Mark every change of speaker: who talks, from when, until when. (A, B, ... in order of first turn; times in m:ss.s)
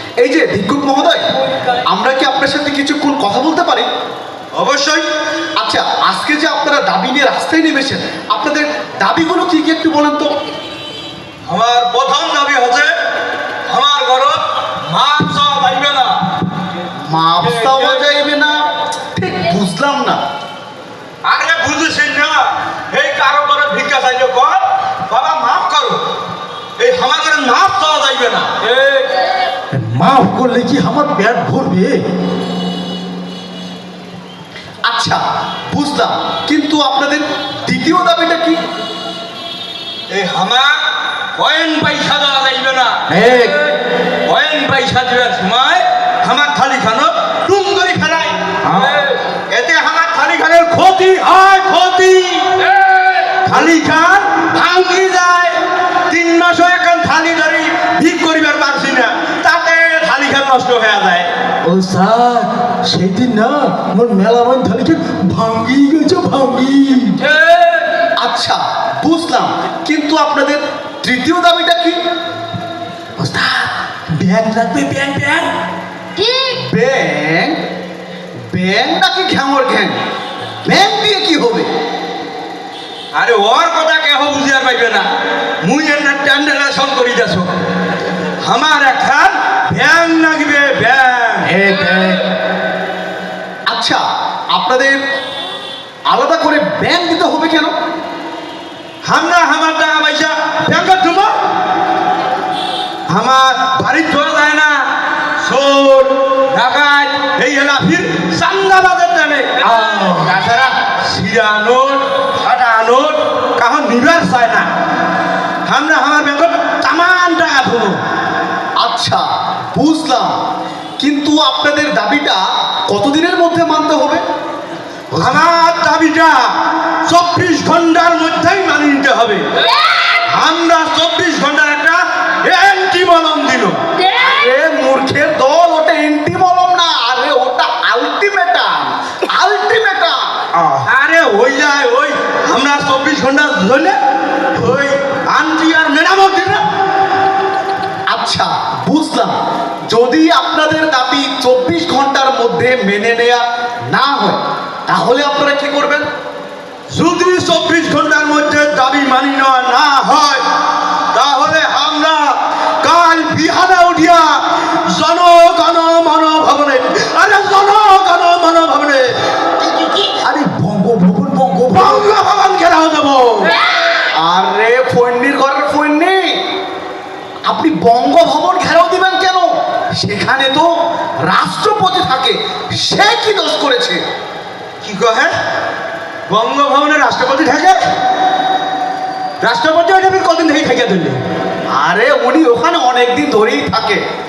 0:00.2-0:01.3 A
0:01.8-0:03.9 A
0:04.5-0:05.0 B
0:05.6-0:10.3 A
0:11.5-0:12.9 B
0:13.7-0:16.1 B
0:17.0-0:18.6 A
0:17.4-0:18.1 B
0:19.1-0:20.2 A
0:21.2-0:26.0 B
0:26.8-0:28.5 B
0:29.7-0:32.0 C
0:34.8-0:38.6 A
0:40.1-0:40.8 B
0:41.3-0:43.6 B
0:43.1-0:43.5 C
0:44.2-0:52.5 B
0:53.4-0:55.6 B
0:56.1-1:01.3 B
1:01.6-1:07.2 C
1:08.2-1:12.0 A
1:13.2-1:15.5 C
1:16.4-1:17.6 A
1:18.5-1:20.0 A
1:20.6-1:21.7 A
1:23.1-1:25.0 B
1:25.6-1:27.6 B
1:28.4-1:32.1 B
1:33.7-1:35.0 A
1:36.1-1:37.7 A
1:39.0-1:41.3 B
1:43.1-1:44.8 B
1:45.4-1:54.7 B
1:55.6-1:58.0 B
1:58.8-2:00.3 A
2:01.0-2:04.2 A
2:05.1-2:06.5 B
2:07.0-2:09.4 B
2:10.2-2:13.8 B
2:14.1-2:20.2 A
2:20.6-2:24.0 B
2:24.6-2:26.6 B
2:28.1-2:29.4 A
2:29.9-2:36.0 A
2:36.9-2:40.4 B
2:41.1-2:49.1 B
2:50.2-2:52.1 C
2:51.7-2:53.5 B
2:54.2-2:56.4 A
2:57.5-3:00.7 A
3:01.2-3:04.0 A
3:04.8-3:05.3 B
3:06.3-3:07.8 B
3:09.4-3:11.2 B
3:11.8-3:14.0 A